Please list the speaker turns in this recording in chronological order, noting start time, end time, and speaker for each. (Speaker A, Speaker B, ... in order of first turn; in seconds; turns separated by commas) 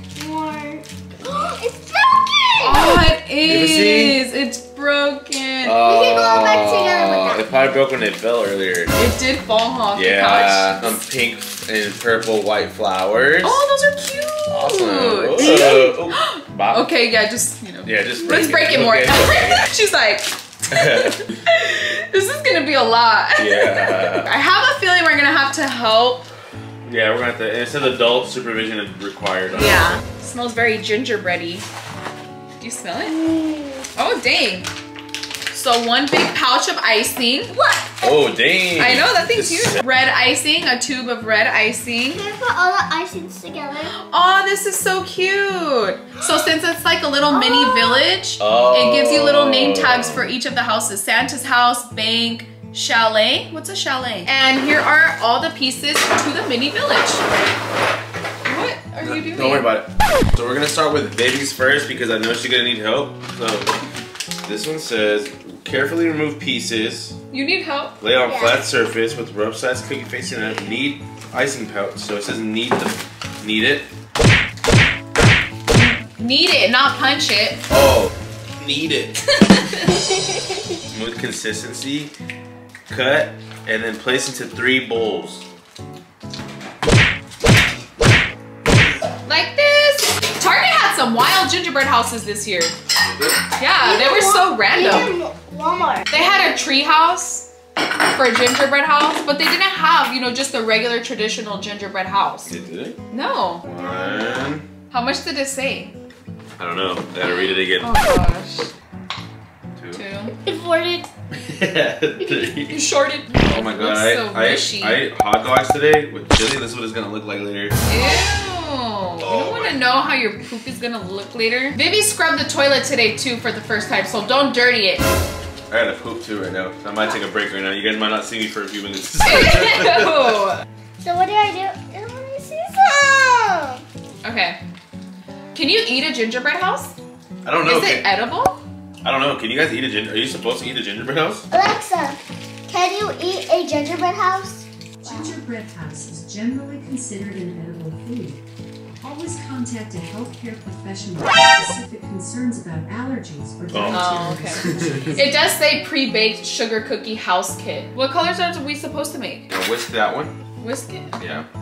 Speaker A: 0.1-3.1, Speaker B: 2.6-5.8, Speaker C: 3.5-4.2, Speaker C: 5.6-8.9, Speaker A: 5.8-7.5, Speaker B: 8.9-11.0, Speaker C: 9.9-13.6, Speaker B: 13.4-26.3, Speaker C: 14.5-16.9, Speaker C: 17.8-19.7, Speaker C: 20.7-21.2, Speaker C: 23.4-24.3, Speaker C: 26.8-30.0, Speaker B: 29.5-31.6, Speaker B: 32.6-33.2, Speaker A: 33.1-33.9, Speaker B: 33.9-34.7, Speaker B: 35.5-37.6, Speaker A: 37.5-38.3, Speaker C: 38.0-39.8, Speaker B: 38.8-42.2, Speaker A: 42.1-43.9, Speaker B: 43.9-57.2, Speaker A: 47.3-48.1, Speaker C: 48.4-50.3, Speaker B: 58.4-59.7, Speaker C: 59.0-63.7, Speaker C: 64.4-67.2, Speaker B: 67.3-68.0, Speaker C: 68.0-73.9, Speaker A: 68.2-68.6, Speaker B: 75.7-77.6, Speaker C: 77.7-79.2, Speaker B: 79.3-80.0, Speaker C: 80.9-82.1, Speaker C: 82.9-85.5, Speaker B: 89.2-92.8, Speaker C: 93.0-93.5, Speaker B: 93.5-95.1, Speaker A: 93.8-96.3, Speaker B: 96.1-97.5, Speaker B: 98.0-102.5, Speaker C: 102.5-103.0, Speaker B: 103.1-103.7, Speaker C: 103.6-104.7, Speaker A: 103.8-104.5, Speaker B: 104.9-106.0, Speaker C: 106.6-108.0, Speaker B: 107.8-108.7, Speaker C: 109.8-110.0, Speaker B: 109.9-110.3, Speaker A: 110.3-111.1, Speaker C: 111.4-112.8, Speaker B: 112.7-115.0, Speaker C: 113.4-117.8, Speaker B: 117.8-125.1, Speaker C: 119.2-119.8, Speaker C: 125.7-130.3, Speaker B: 129.2-130.6, Speaker A: 131.0-133.8, Speaker B: 134.2-134.6, Speaker B: 135.5-137.0, Speaker C: 137.4-138.1, Speaker B: 137.6-138.6, Speaker C: 139.0-141.5, Speaker A: 141.5-145.3, Speaker D: 145.0-148.4, Speaker D: 149.0-155.2, Speaker C: 153.7-154.2, Speaker B: 153.9-159.5, Speaker C: 159.5-160.3, Speaker B: 160.6-161.2, Speaker C: 161.2-161.5